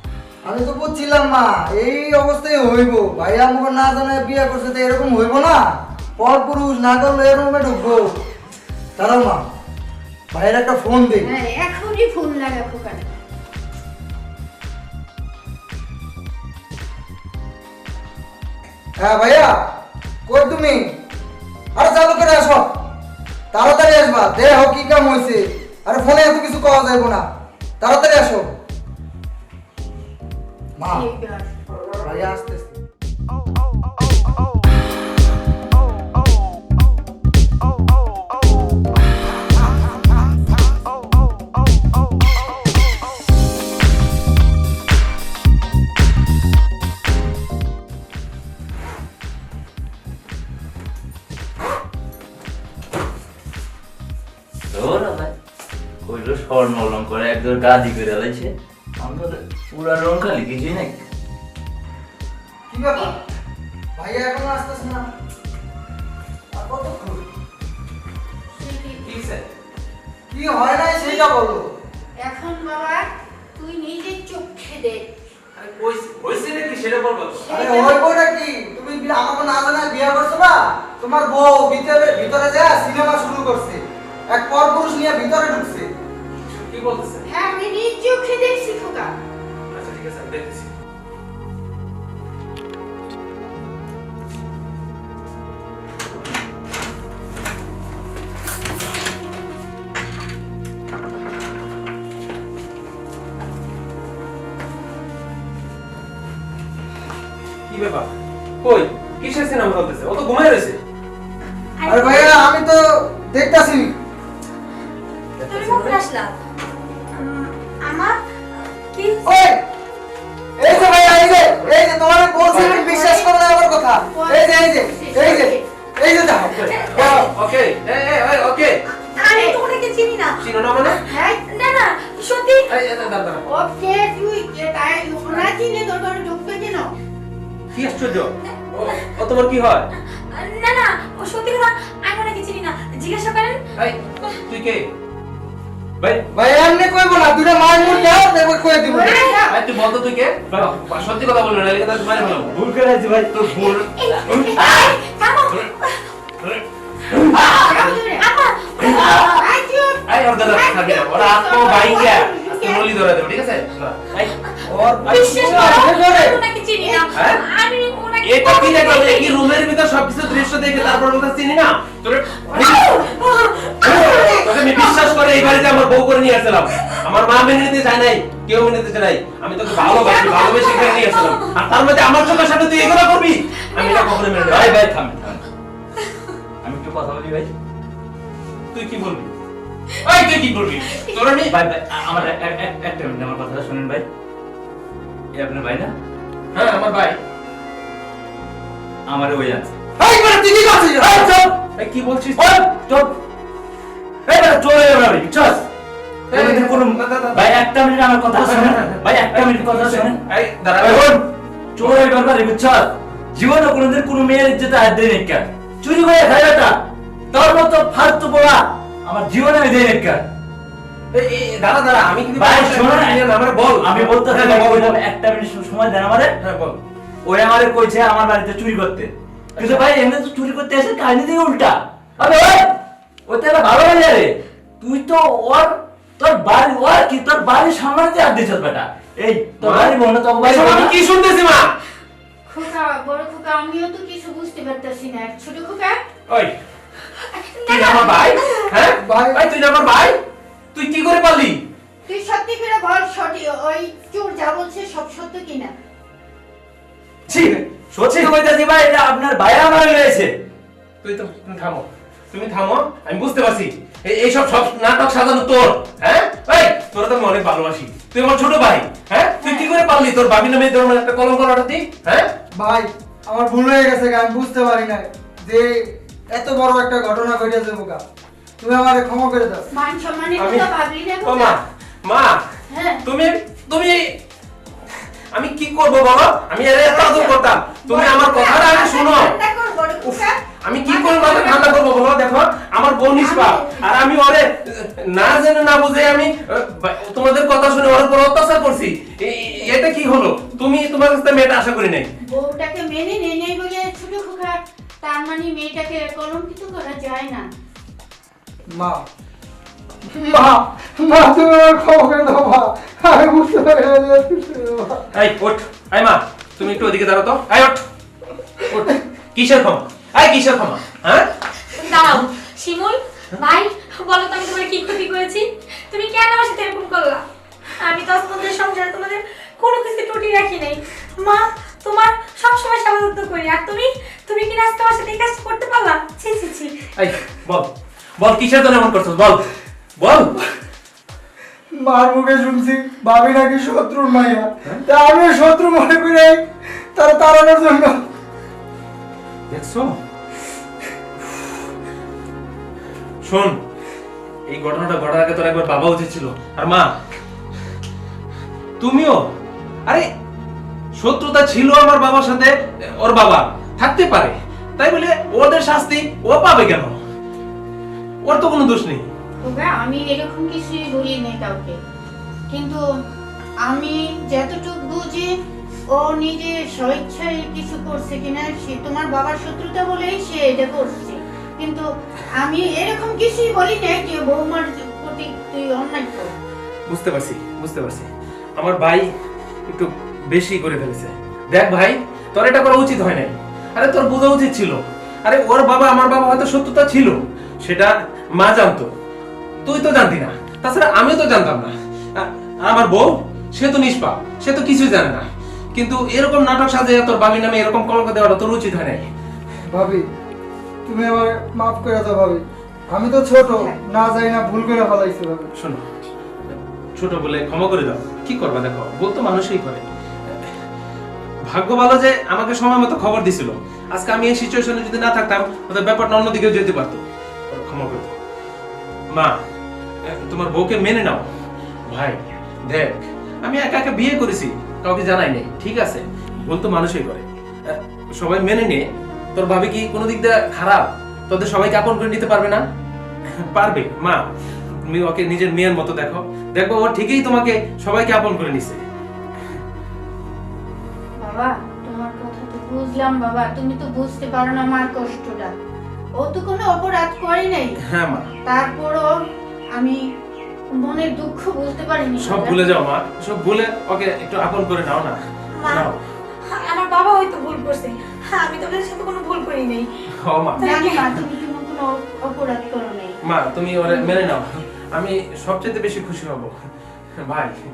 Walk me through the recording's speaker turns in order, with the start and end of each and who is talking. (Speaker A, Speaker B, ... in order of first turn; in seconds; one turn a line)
Speaker A: 0.4-8.2
Speaker A: 9.0-9.4
Speaker A: 10.3-11.3
Speaker B: 11.2-13.1
Speaker A: 19.0-19.5
Speaker A: 20.3-21.0
Speaker A: 21.8-22.7
Speaker A: 23.5-27.2
Speaker A: 27.8-28.5
Speaker A: 30.8-31.1
Speaker B: 30.9-31.5
Speaker A: 32.0-32.8
Speaker C: 54.7-55.3
Speaker C: 56.0-61.0
Speaker A: 62.7-63.2
Speaker A: 64.0-65.1
Speaker A: 66.5-67.3
Speaker B: 68.5-69.1
Speaker D: 69.0-69.4
Speaker A: 70.3-71.7
Speaker B: 71.0-71.4
Speaker B: 72.2-75.1
Speaker D: 75.6-77.5
Speaker B: 77.4-78.1
Speaker A: 77.5-85.9
Speaker D: 86.5-87.2
Speaker B: 87.3-89.1
Speaker D: 89.7-90.7
Speaker D: 107.7-108.1
Speaker D: 108.6-110.8
Speaker E: 111.8-112.5
Speaker A: 111.9-114.0
Speaker D: 115.4-116.0
Speaker E: 115.5-116.4
Speaker E: 117.1-118.2
Speaker E: 118.9-119.3
Speaker A: 119.2-119.7
Speaker A: 120.6-127.3
Speaker B: 122.4-123.3
Speaker D: 122.5-122.8
Speaker B: 124.1-125.6
Speaker D: 126.5-128.8
Speaker E: 126.6-127.3
Speaker E: 129.1-132.7
Speaker B: 129.2-129.6
Speaker D: 130.4-131.0
Speaker B: 131.0-131.4
Speaker D: 132.7-133.4
Speaker B: 133.5-136.9
Speaker D: 137.7-139.9
Speaker E: 138.5-139.1
Speaker E: 140.3-143.6
Speaker D: 143.8-144.9
Speaker A: 146.3-149.2
Speaker B: 148.9-149.6
Speaker E: 149.0-149.4
Speaker D: 149.5-152.6
Speaker C: 152.5-154.9
Speaker D: 153.4-153.8
Speaker E: 153.5-156.1
Speaker D: 154.3-154.6
Speaker D: 156.4-157.3
Speaker B: 157.3-158.3
Speaker C: 157.3-157.8
Speaker E: 157.6-159.1
Speaker B: 158.9-162.9
Speaker C: 158.9-159.4
Speaker D: 160.1-164.3
Speaker A: 164.7-166.4
Speaker E: 165.0-169.5
Speaker D: 165.2-165.8
Speaker B: 166.8-167.1
Speaker D: 167.2-167.4
Speaker D: 168.2-173.1
Speaker E: 172.5-175.6
Speaker D: 173.8-184.8
Speaker B: 173.9-174.5
Speaker E: 179.7-181.6
Speaker E: 183.7-184.7
Speaker C: 184.5-185.5
Speaker C: 186.6-187.5
Speaker D: 188.7-189.3
Speaker D: 190.0-191.6
Speaker C: 191.5-194.1
Speaker C: 195.3-195.9
Speaker D: 196.5-197.2
Speaker C: 199.1-199.7
Speaker A: 200.0-201.3
Speaker C: 201.0-201.6
Speaker D: 201.8-202.5
Speaker C: 202.4-203.2
Speaker C: 204.3-205.7
Speaker D: 206.3-207.5
Speaker C: 206.3-210.2
Speaker D: 208.4-211.1
Speaker C: 210.8-216.8
Speaker C: 217.3-220.2
Speaker D: 221.1-225.0
Speaker C: 222.4-226.3
Speaker D: 226.4-226.8
Speaker C: 227.2-240.9
Speaker D: 229.6-229.8
Speaker D: 239.6-241.8
Speaker B: 242.5-246.0
Speaker D: 246.3-246.5
Speaker E: 247.2-248.7
Speaker D: 247.7-250.2
Speaker A: 248.9-249.4
Speaker D: 250.7-251.6
Speaker B: 252.1-255.7
Speaker C: 257.3-260.3
Speaker D: 257.3-258.3
Speaker D: 261.0-272.3
Speaker B: 269.4-269.7
Speaker A: 272.6-278.0
Speaker A: 278.6-279.6
Speaker B: 279.7-281.6
Speaker D: 280.4-280.7
Speaker D: 281.2-282.4
Speaker B: 282.7-283.0
Speaker D: 283.1-284.1
Speaker D: 285.3-289.4
Speaker B: 286.8-291.8
Speaker D: 290.0-302.1
Speaker B: 293.2-293.9
Speaker B: 302.3-307.5
Speaker A: 308.7-309.0
Speaker A: 310.1-315.1
Speaker D: 315.1-317.8
Speaker D: 318.7-321.3
Speaker E: 321.7-327.2
Speaker E: 327.8-336.8
Speaker D: 337.0-339.4
Speaker D: 340.0-340.3
Speaker A: 341.8-348.0
Speaker D: 349.5-350.0
Speaker D: 353.2-353.6
Speaker D: 354.5-356.9
Speaker D: 358.8-359.2
Speaker D: 361.0-366.9
Speaker D: 368.2-369.1
Speaker B: 369.4-371.8
Speaker B: 372.5-372.8
Speaker B: 373.6-375.3
Speaker B: 375.9-386.3
Speaker D: 386.9-389.1
Speaker D: 389.7-398.9
Speaker D: 399.6-409.1
Speaker A: 409.7-410.1
Speaker A: 410.9-415.5
Speaker B: 413.5-413.8
Speaker D: 415.6-415.8
Speaker D: 416.9-420.5
Speaker D: 421.4-428.2
Speaker D: 430.1-431.2
Speaker D: 431.9-432.2
Speaker D: 432.7-442.6
Speaker D: 443.4-444.2
Speaker D: 444.9-448.8
Speaker B: 451.2-455.5
Speaker B: 456.2-457.8
Speaker D: 457.9-458.3
Speaker B: 458.4-459.1
Speaker B: 460.7-462.6
Speaker D: 462.2-465.9
Speaker E: 465.6-465.9
Speaker E: 466.5-469.9
Speaker D: 470.2-470.6
Speaker B: 470.6-473.2
Speaker E: 470.6-471.1
Speaker D: 473.2-476.5
Speaker B: 473.9-474.3
Speaker D: 477.2-477.5